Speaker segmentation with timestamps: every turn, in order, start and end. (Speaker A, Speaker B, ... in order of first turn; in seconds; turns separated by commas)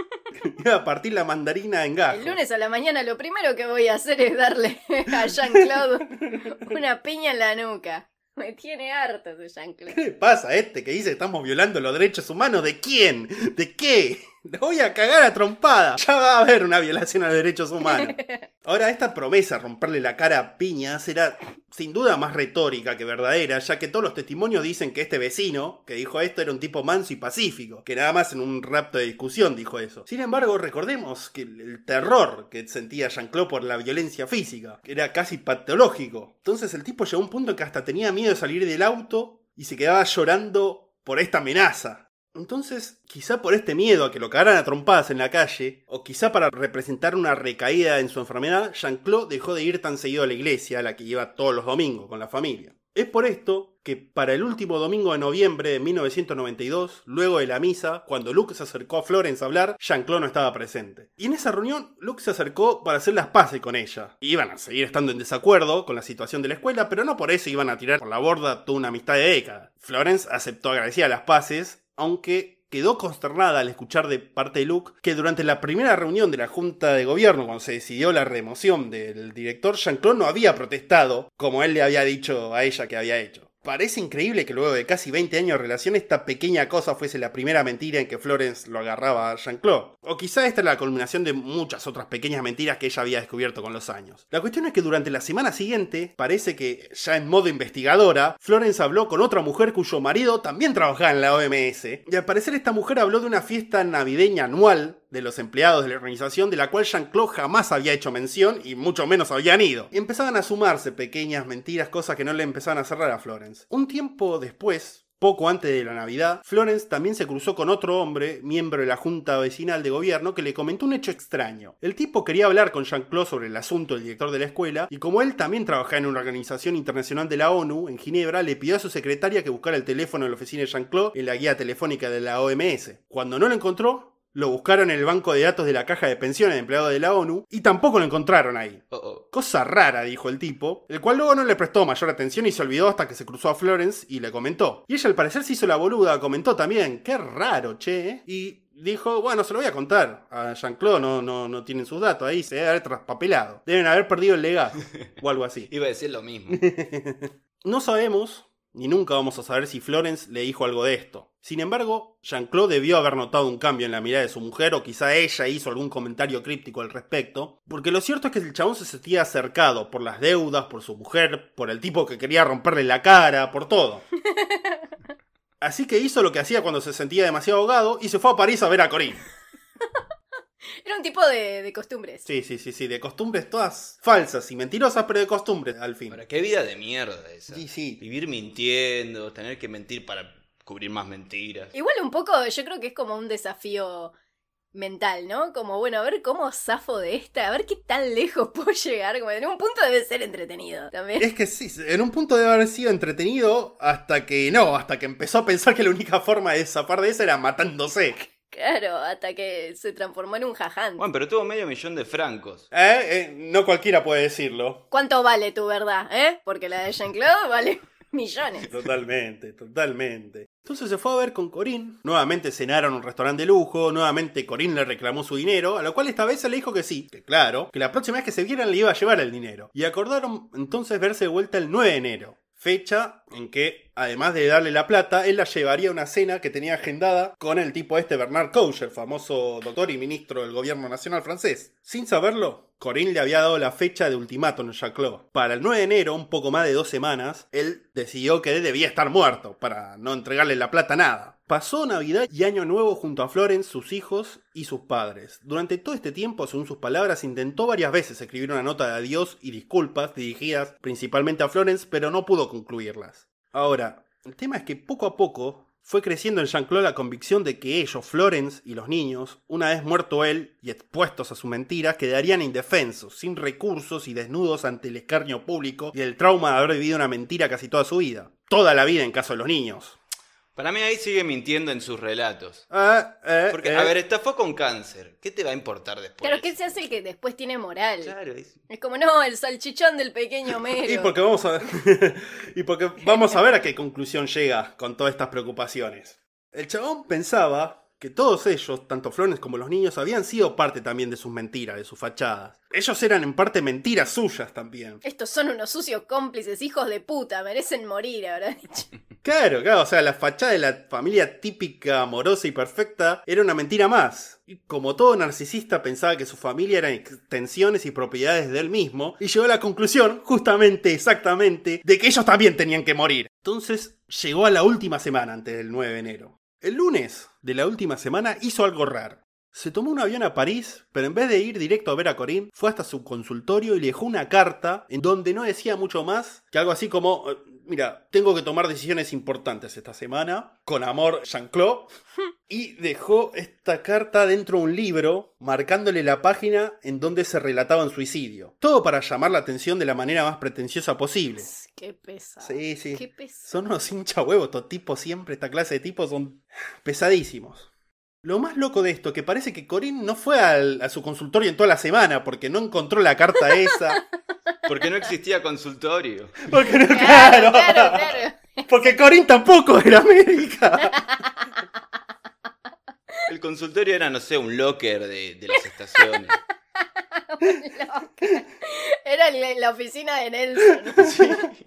Speaker A: 0.3-2.4, Speaker B: 2.1-10.0, Speaker A: 6.3-6.8, Speaker A: 9.9-155.7, Speaker B: 17.8-18.5, Speaker C: 138.9-139.2, Speaker C: 155.7-156.6, Speaker A: 156.5-174.1, Speaker B: 174.3-174.9, Speaker A: 175.6-179.2, Speaker B: 180.8-182.3, Speaker A: 182.3-186.2, Speaker C: 186.1-191.7, Speaker A: 187.5-188.0, Speaker B: 191.7-194.1, Speaker B: 194.7-201.3, Speaker A: 201.2-208.3, Speaker B: 208.5-211.0, Speaker C: 211.0-212.7, Speaker A: 212.7-214.8, Speaker B: 214.9-218.7, Speaker A: 218.6-280.0, Speaker C: 280.6-282.6, Speaker A: 282.7-283.9, Speaker C: 283.5-286.9, Speaker B: 286.2-288.1, Speaker C: 288.0-288.6, Speaker B: 288.7-291.1, Speaker A: 290.8-305.0, Speaker B: 305.0-308.9, Speaker A: 309.2-341.9, Speaker A: 342.5-351.5, Speaker B: 351.4-353.5, Speaker A: 352.4-357.7, Speaker A: 358.2-364.0, Speaker C: 364.7-366.6, Speaker A: 366.5-371.0, Speaker B: 366.9-368.9, Speaker B: 370.9-371.5, Speaker C: 373.3-376.4, Speaker B: 376.8-381.4, Speaker A: 380.9-381.5